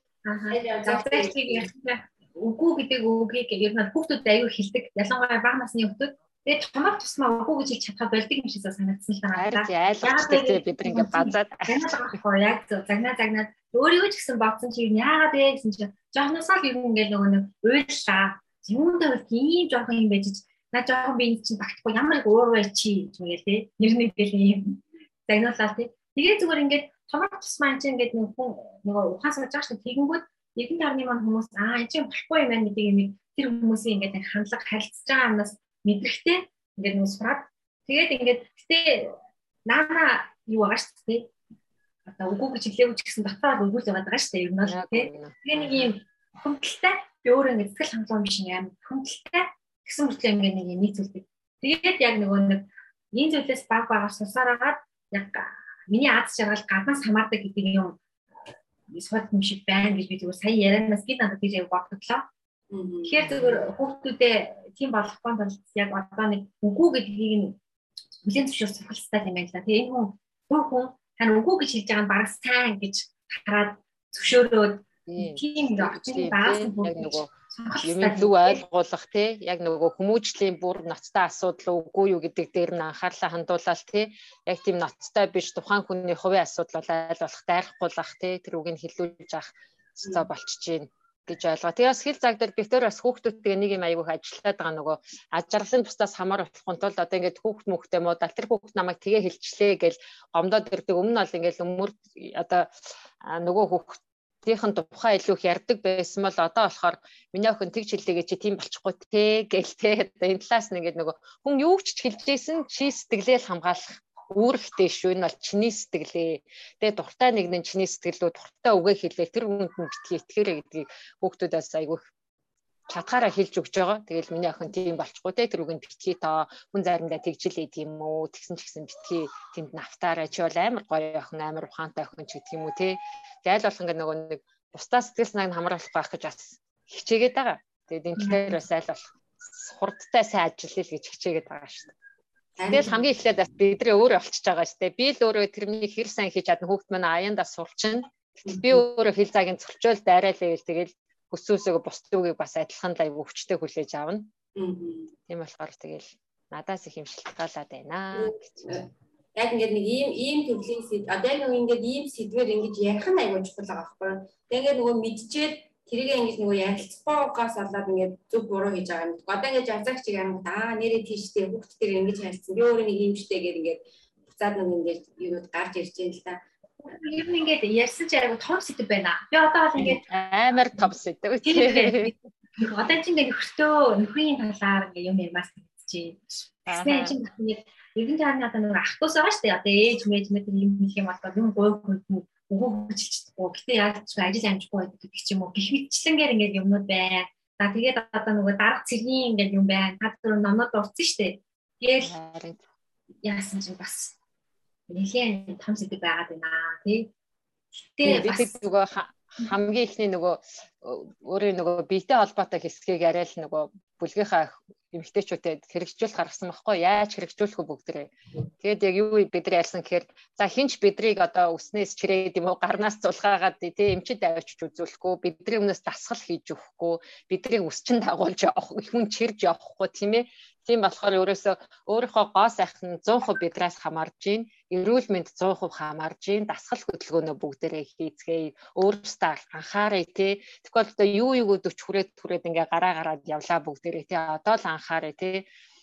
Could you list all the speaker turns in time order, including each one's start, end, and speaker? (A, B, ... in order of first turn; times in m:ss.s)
0:00.2-0:41.3 A
0:00.5-0:01.7 B
0:09.4-0:12.2 C
0:42.1-0:58.0 A
0:44.7-0:46.0 C
0:58.9-1:02.3 A
1:02.7-1:03.3 B
1:03.0-1:07.6 A
1:03.2-1:03.6 C
1:08.2-1:18.6 A
1:15.1-1:17.3 C
1:17.8-2:02.1 C
2:02.9-2:21.9 C
2:18.2-2:18.6 A
2:22.6-2:23.1 B
2:22.7-2:34.3 C
2:28.5-2:28.8 B
2:34.6-2:35.1 B
2:35.3-2:38.7 C
2:38.1-2:56.4 B
2:56.8-3:00.0 A
2:59.8-3:02.2 C
3:01.4-3:22.1 A
3:06.7-3:07.2 C
3:22.0-3:22.6 C
3:23.2-3:24.2 A
3:24.9-3:27.1 A
3:28.0-3:28.6 A
3:28.0-4:05.5 C